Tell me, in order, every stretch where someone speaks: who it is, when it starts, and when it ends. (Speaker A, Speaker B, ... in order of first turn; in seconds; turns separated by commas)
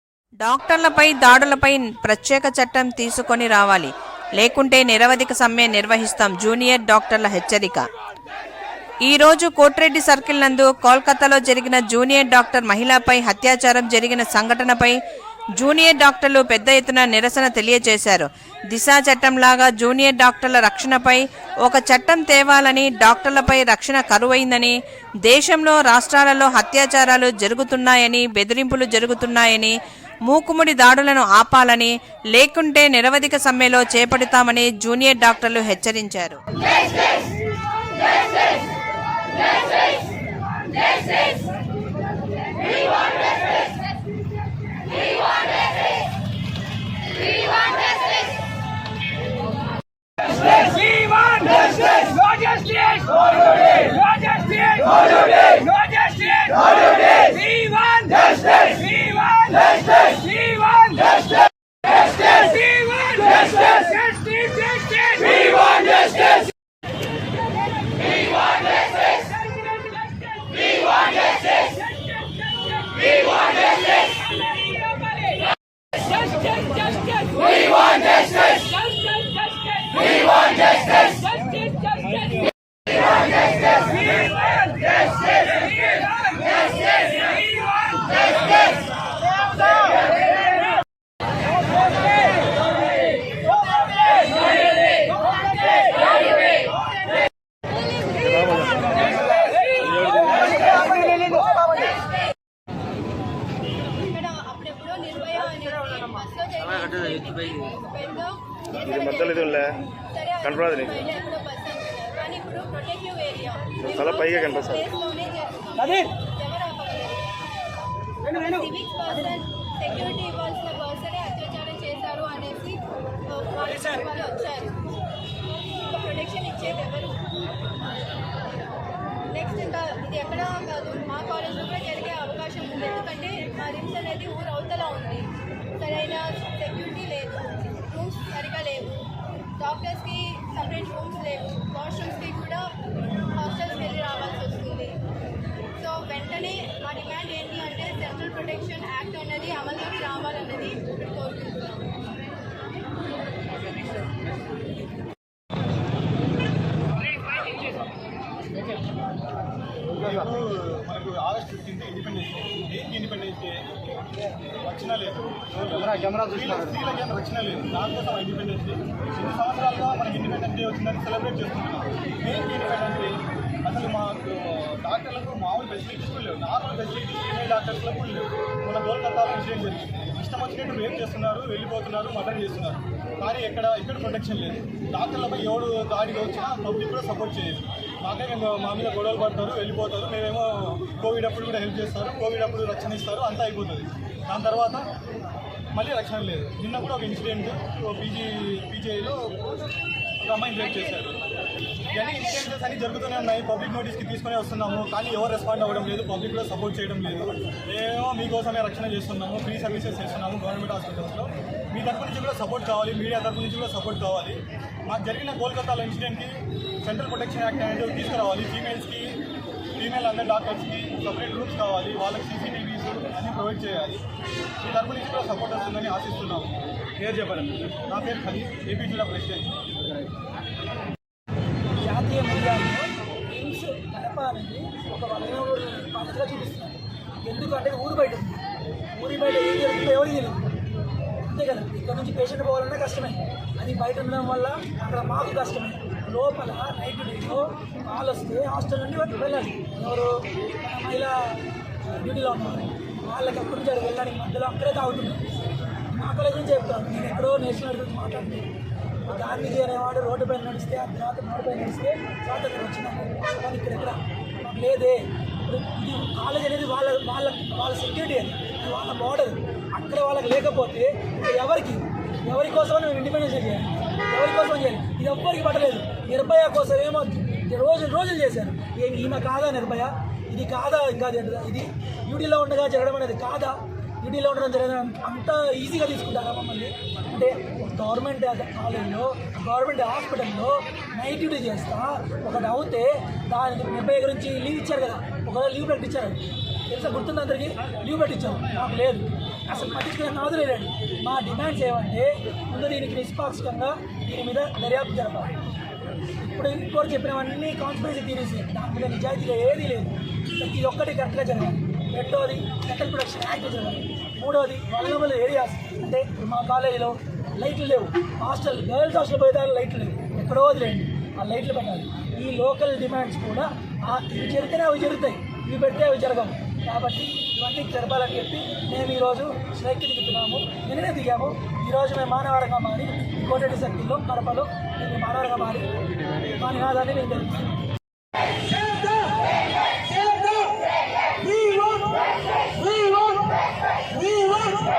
Speaker A: 0.4-7.8, Speaker A: 9.1-15.0, Speaker A: 15.6-24.7, Speaker A: 25.3-36.4, Speaker B: 50.4-61.2, Speaker B: 62.1-66.3, Speaker B: 76.2-76.5, Speaker B: 77.7-80.5, Speaker C: 98.3-98.8, Speaker C: 99.8-100.3, Speaker D: 104.1-108.4, Speaker C: 108.8-109.8, Speaker C: 110.4-111.0, Speaker D: 111.1-113.7, Speaker C: 113.8-114.9, Speaker D: 114.9-115.8, Speaker E: 115.8-116.2, Speaker D: 116.3-117.2, Speaker D: 118.7-124.7, Speaker E: 123.6-124.0, Speaker D: 125.9-127.2, Speaker D: 129.3-139.0, Speaker D: 139.6-142.7, Speaker D: 143.4-144.9, Speaker D: 145.8-151.8, Speaker F: 160.0-163.7, Speaker F: 164.6-194.9, Speaker F: 195.7-199.4, Speaker F: 200.2-201.2, Speaker F: 201.9-219.2, Speaker F: 219.8-224.0, Speaker F: 224.6-229.6, Speaker E: 231.8-238.4, Speaker E: 238.9-240.5, Speaker E: 241.2-255.2, Speaker E: 255.9-258.5, Speaker E: 259.1-305.4, Speaker E: 306.2-335.7, Speaker E: 336.2-337.6